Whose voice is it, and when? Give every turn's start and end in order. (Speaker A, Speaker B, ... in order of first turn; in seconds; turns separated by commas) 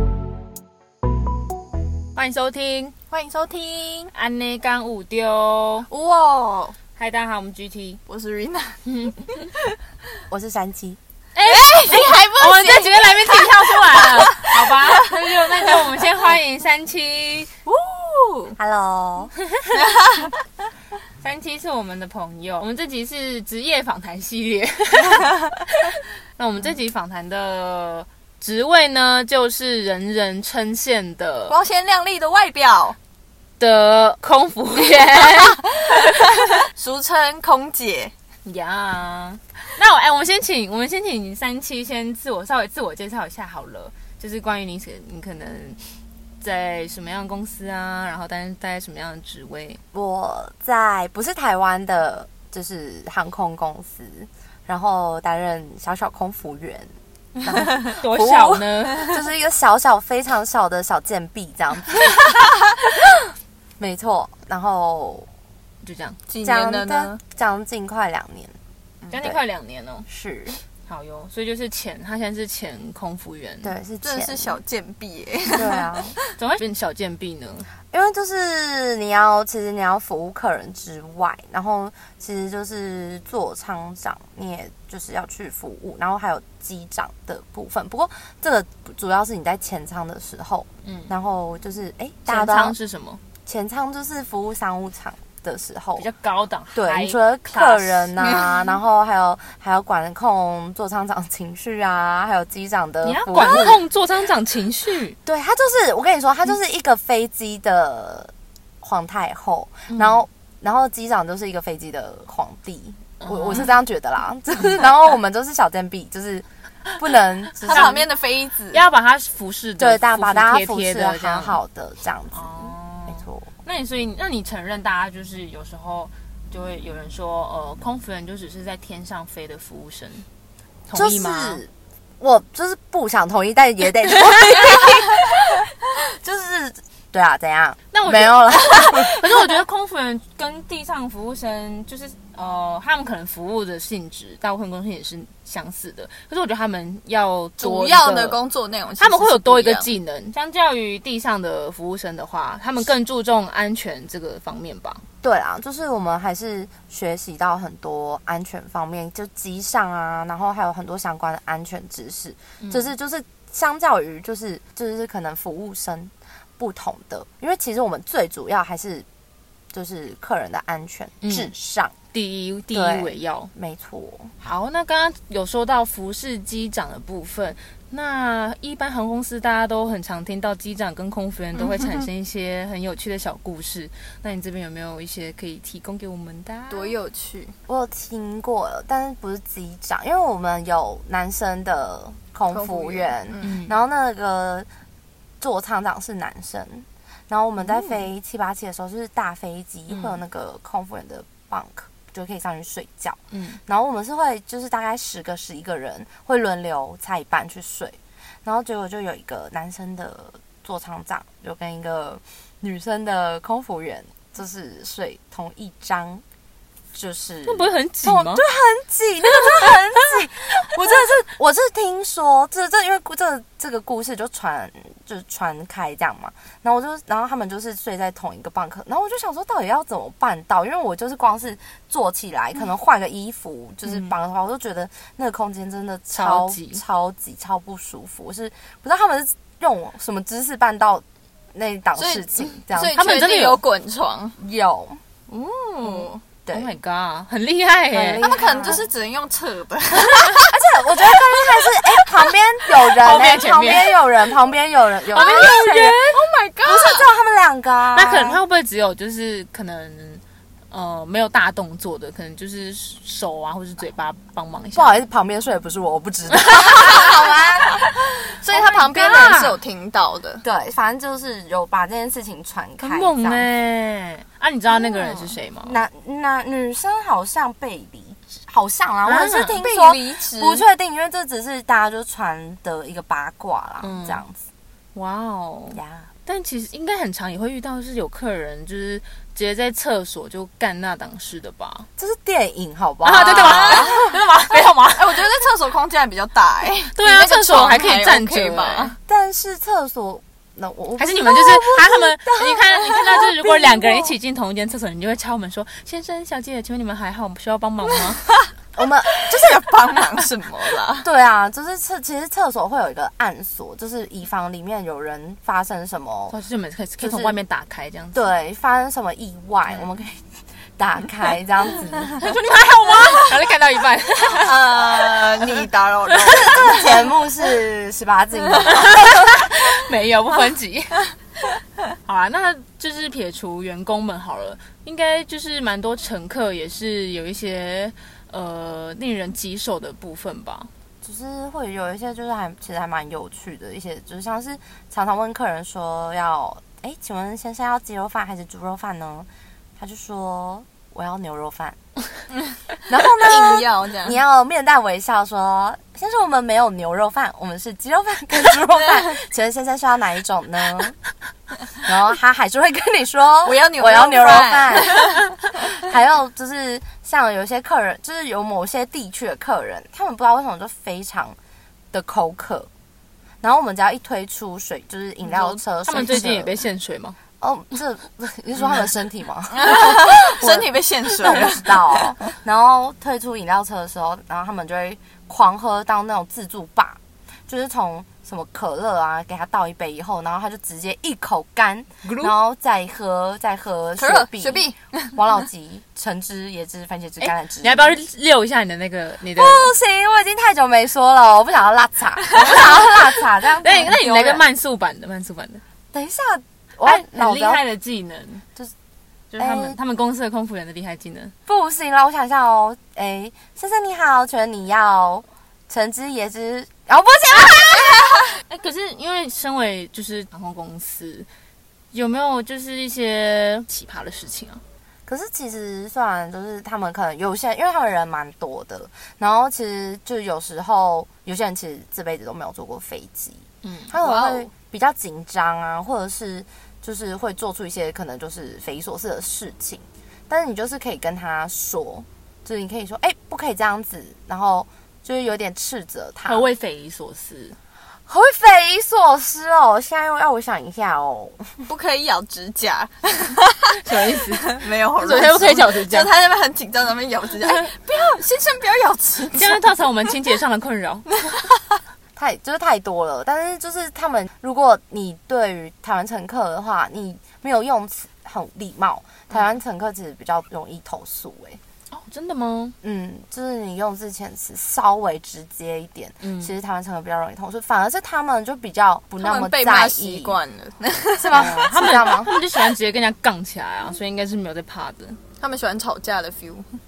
Speaker A: 2.1-3.0, Speaker B: 3.1-4.1, Speaker A: 4.1-5.9, Speaker B: 5.9-6.8, Speaker A: 7.0-8.0, Speaker B: 8.1-9.4, Speaker A: 8.9-9.3, Speaker C: 10.3-11.0, Speaker A: 11.3-17.5, Speaker B: 11.4-15.7, Speaker B: 17.7-18.6, Speaker C: 18.6-19.3, Speaker B: 19.7-20.4, Speaker A: 21.2-31.6, Speaker B: 31.5-33.0, Speaker A: 33.6-36.5, Speaker B: 36.4-38.1, Speaker A: 38.4-49.8, Speaker C: 49.9-56.9, Speaker C: 57.4-62.2, Speaker A: 57.5-59.2, Speaker C: 63.8-65.3, Speaker A: 65.8-66.2, Speaker B: 66.3-67.2, Speaker C: 66.4-68.6, Speaker A: 69.1-70.1, Speaker C: 70.1-70.6, Speaker A: 70.8-73.8, Speaker C: 73.6-74.6, Speaker B: 74.0-76.2, Speaker C: 75.5-76.2, Speaker A: 76.3-77.7, Speaker C: 77.9-92.8, Speaker A: 90.8-91.1, Speaker A: 92.2-93.2, Speaker C: 93.5-96.1, Speaker A: 96.0-98.2, Speaker C: 96.7-103.8, Speaker A: 103.0-105.2, Speaker C: 105.3-116.5, Speaker A: 109.9-110.2, Speaker A: 113.2-113.7, Speaker C: 117.0-118.0, Speaker B: 117.6-118.8, Speaker A: 117.7-118.0, Speaker A: 118.7-121.6, Speaker C: 119.8-123.5, Speaker A: 122.3-130.3, Speaker A: 130.9-131.6, Speaker C: 130.9-139.2, Speaker A: 137.9-148.4, Speaker B: 147.6-149.9, Speaker A: 149.0-155.0, Speaker C: 155.2-169.1, Speaker A: 162.6-162.9, Speaker C: 169.7-171.9, Speaker A: 171.2-171.5, Speaker A: 172.1-173.5, Speaker C: 172.7-174.3, Speaker A: 174.4-186.9, Speaker B: 181.6-182.1, Speaker B: 186.7-187.6, Speaker C: 187.7-194.7, Speaker B: 192.5-193.5, Speaker A: 193.4-193.8, Speaker C: 195.4-216.2, Speaker B: 197.7-198.0, Speaker A: 199.9-200.2, Speaker A: 203.3-203.6, Speaker C: 216.9-243.0, Speaker A: 217.5-218.4, Speaker A: 233.8-234.1, Speaker A: 236.1-236.8, Speaker B: 241.9-244.4, Speaker A: 242.9-243.6, Speaker C: 244.4-245.0, Speaker B: 245.3-246.2, Speaker C: 245.8-246.7, Speaker A: 246.5-248.8, Speaker C: 247.9-248.8, Speaker B: 248.2-250.5, Speaker C: 250.3-256.0, Speaker B: 251.2-252.3, Speaker A: 253.0-253.9, Speaker B: 255.1-257.0, Speaker A: 255.2-255.9, Speaker C: 256.6-258.4, Speaker A: 257.9-265.0, Speaker C: 264.8-267.8, Speaker A: 266.5-266.9, Speaker B: 268.3-270.4, Speaker A: 268.5-269.6, Speaker C: 268.8-269.2, Speaker C: 270.4-273.5, Speaker A: 272.8-275.8, Speaker C: 274.7-284.4, Speaker A: 279.0-279.6, Speaker B: 279.5-280.6, Speaker A: 283.8-284.2, Speaker A: 284.9-291.9, Speaker C: 285.7-286.1, Speaker C: 292.0-294.0, Speaker A: 293.0-295.2, Speaker B: 293.1-294.1, Speaker B: 294.9-299.0, Speaker A: 296.9-298.9, Speaker C: 299.1-304.1, Speaker A: 301.0-308.2, Speaker C: 308.8-309.6, Speaker B: 309.2-311.1, Speaker C: 311.0-316.3, Speaker A: 316.3-318.3, Speaker C: 317.0-317.4, Speaker C: 318.1-322.2, Speaker A: 322.2-324.5, Speaker B: 324.3-327.0, Speaker C: 326.2-329.2, Speaker A: 328.7-331.1, Speaker A: 332.0-340.7, Speaker C: 341.0-351.8, Speaker C: 352.9-361.0, Speaker B: 353.0-354.2, Speaker C: 361.8-365.1, Speaker B: 363.4-365.3, Speaker C: 365.6-371.4, Speaker C: 371.9-372.7, Speaker C: 373.4-376.6, Speaker B: 375.2-375.6, Speaker A: 375.8-377.2, Speaker C: 377.4-397.9, Speaker B: 379.5-382.1, Speaker A: 392.0-392.3, Speaker B: 394.0-395.2, Speaker A: 397.2-399.7, Speaker C: 399.3-404.5, Speaker A: 403.6-405.6, Speaker C: 405.9-407.6, Speaker A: 406.8-408.4, Speaker A: 409.3-411.3, Speaker C: 409.4-409.8, Speaker C: 411.4-418.2, Speaker B: 417.8-418.2, Speaker A: 418.5-421.3, Speaker A: 421.9-424.6, Speaker C: 425.1-446.4, Speaker A: 433.6-433.9, Speaker B: 434.0-434.5, Speaker A: 446.2-447.6, Speaker C: 448.1-451.6, Speaker B: 451.7-459.6, Speaker A: 453.7-456.1, Speaker A: 459.3-461.2, Speaker C: 462.1-471.6, Speaker A: 471.9-472.8, Speaker C: 472.8-480.4, Speaker A: 476.2-476.5, Speaker B: 479.2-481.5, Speaker C: 481.2-482.4, Speaker A: 481.3-485.2, Speaker B: 485.4-486.8